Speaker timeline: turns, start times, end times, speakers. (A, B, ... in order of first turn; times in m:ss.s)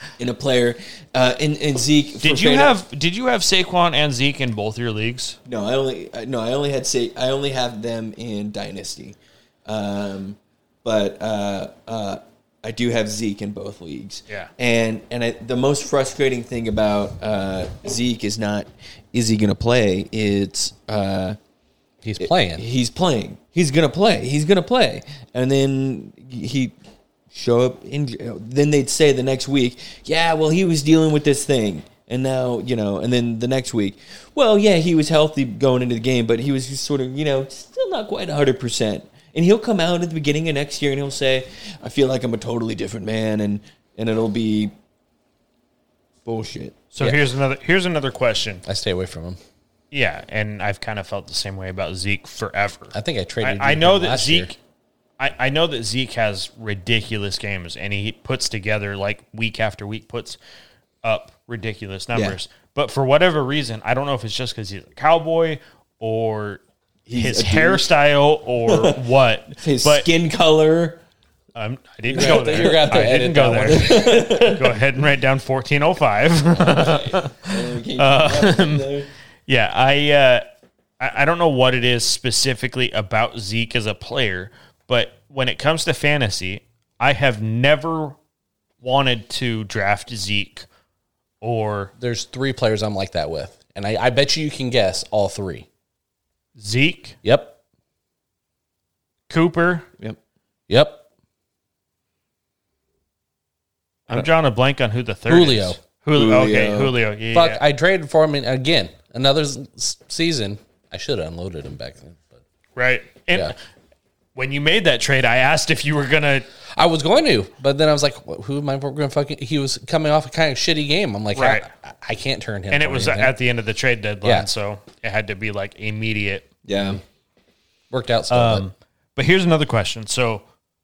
0:00.2-0:02.8 A
0:02.2-0:05.4 B
0:05.5-0:21.4 A
0:22.0-0:22.6 C
0:22.2-0:26.7 A
0:27.3-0:44.7 A
0:46.2-0:46.8 A
0:46.9-0:48.6 B
0:48.6-0:49.4 C
0:49.9-0:54.6 B
0:52.9-0:54.5 C
0:55.2-1:00.4 B
1:01.0-1:06.6 B
1:07.1-1:07.9 A
1:07.1-1:10.1 B
1:08.7-1:09.0 A
1:09.6-1:11.0 A
1:11.6-1:18.9 B
1:12.1-1:14.4 C
1:12.1-1:12.8 A
1:13.6-1:14.8 A
1:16.6-1:19.1 A
1:19.5-1:20.4 B
1:21.0-1:28.2 B
1:28.8-1:30.7 B
1:31.4-1:31.9 B
1:32.0-1:35.7 C
1:36.6-1:37.2 B
1:37.2-1:37.6 C
1:39.3-1:39.9 B
1:40.7-1:41.0 C
1:44.1-1:47.6 B
1:45.3-1:45.8 C
1:46.2-1:47.0 A
1:47.3-1:52.4 C
1:52.8-1:53.6 B
1:54.4-1:56.5 B
1:56.8-2:03.3 C
2:01.4-2:01.7 B
2:02.7-2:06.5 B
2:06.6-2:07.0 A
2:07.9-2:08.7 C
2:08.3-2:10.4 B